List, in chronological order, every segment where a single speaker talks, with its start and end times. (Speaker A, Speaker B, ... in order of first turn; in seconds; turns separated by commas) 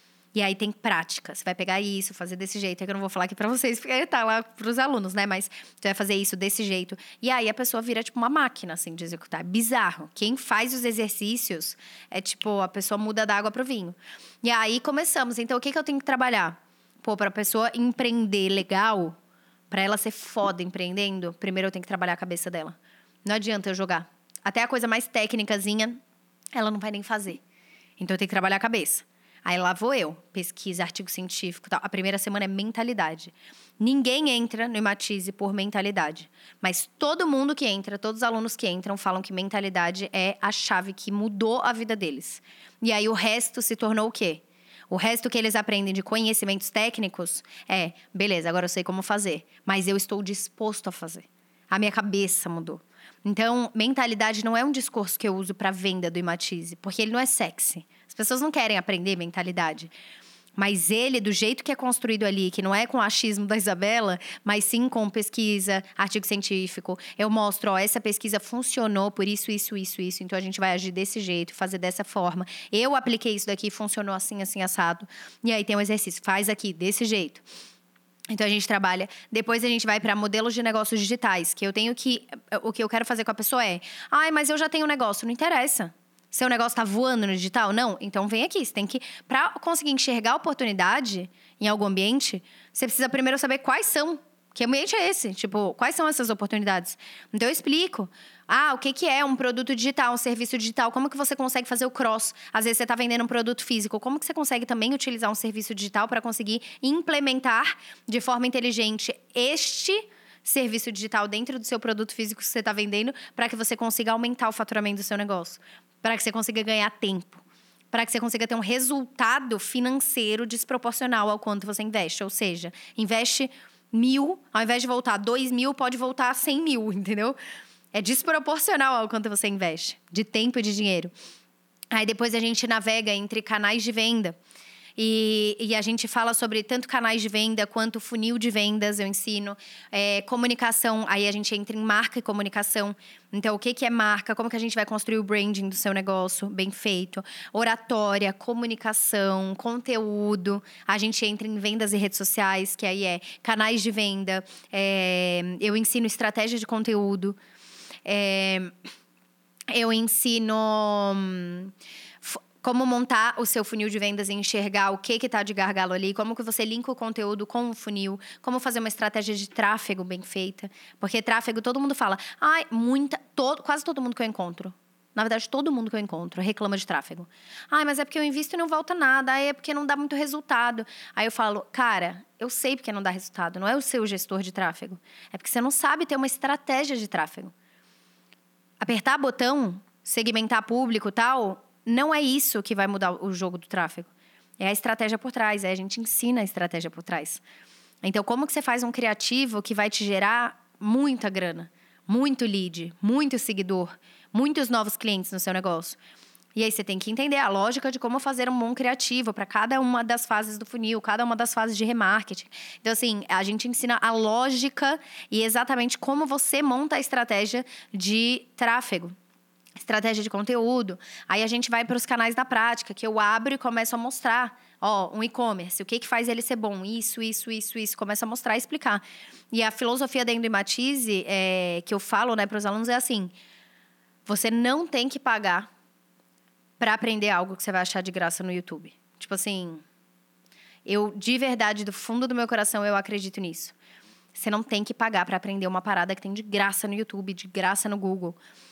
Speaker A: 0.3-19.1, Speaker A: 19.7-26.0, Speaker A: 26.5-27.4, Speaker A: 28.0-59.9, Speaker A: 60.5-77.4, Speaker A: 78.3-127.4, Speaker A: 127.9-131.1, Speaker A: 131.9-134.4, Speaker A: 135.0-157.4, Speaker A: 158.1-158.7, Speaker A: 159.7-187.5, Speaker A: 188.8-197.4, Speaker A: 198.0-206.0, Speaker A: 206.5-219.1, Speaker A: 219.8-233.3, Speaker A: 234.2-235.7, Speaker A: 236.8-239.8, Speaker A: 240.8-243.7, Speaker A: 244.3-248.4